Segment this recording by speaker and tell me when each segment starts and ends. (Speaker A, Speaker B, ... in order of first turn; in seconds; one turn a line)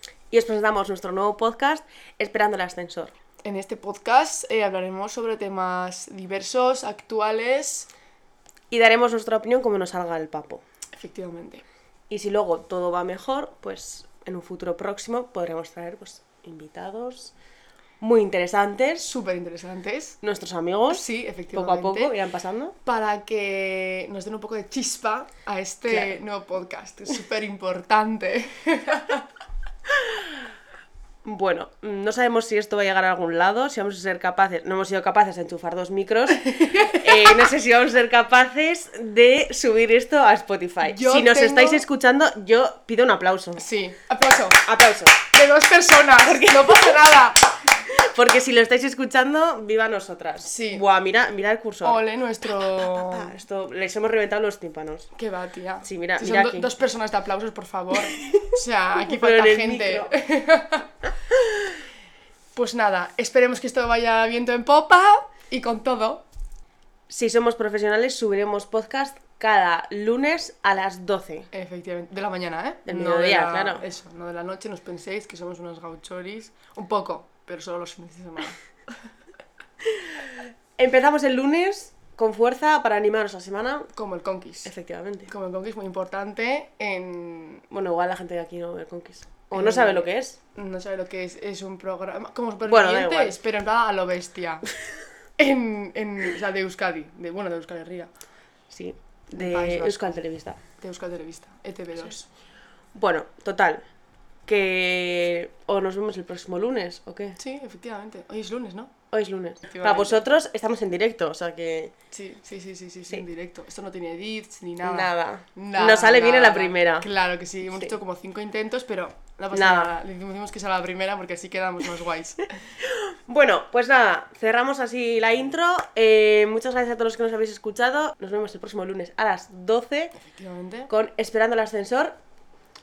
Speaker A: 0.3-3.1
Speaker B: 3.4-7.9
Speaker A: 8.7-10.6
Speaker B: 11.0-11.6
Speaker A: 12.1-17.3
Speaker A: 18.0-19.1
Speaker B: 19.0-20.2
Speaker A: 20.2-22.7
Speaker B: 20.9-22.1
Speaker B: 22.8-29.2
Speaker A: 25.9-26.2
Speaker A: 31.2-43.6
Speaker B: 36.4-37.4
Speaker B: 40.8-41.8
Speaker B: 43.6-44.6
Speaker A: 44.6-45.2
Speaker B: 45.3-47.5
Speaker A: 46.2-52.0
Speaker B: 50.4-50.8
Speaker B: 51.8-53.4
Speaker A: 52.6-55.1
Speaker B: 55.1-60.9
Speaker A: 55.8-56.7
Speaker A: 58.1-60.1
Speaker B: 62.5-66.2
Speaker A: 67.1-71.5
Speaker B: 71.5-78.6
Speaker A: 72.8-73.8
Speaker A: 80.8-83.9
Speaker B: 83.9-84.7
Speaker A: 84.6-85.3
Speaker B: 85.3-87.6
Speaker A: 87.7-90.4
Speaker B: 89.5-94.7
Speaker A: 92.7-93.4
Speaker B: 95.4-98.1
Speaker A: 98.7-100.6
Speaker B: 99.3-100.2
Speaker B: 100.8-102.2
Speaker A: 102.9-103.8
Speaker A: 104.5-107.4
Speaker B: 107.4-108.9
Speaker A: 109.1-111.9
Speaker B: 109.7-110.2
Speaker B: 112.1-122.6
Speaker A: 114.8-117.0
Speaker A: 119.5-119.9
Speaker A: 122.8-130.1
Speaker B: 130.2-130.9
Speaker A: 130.9-132.2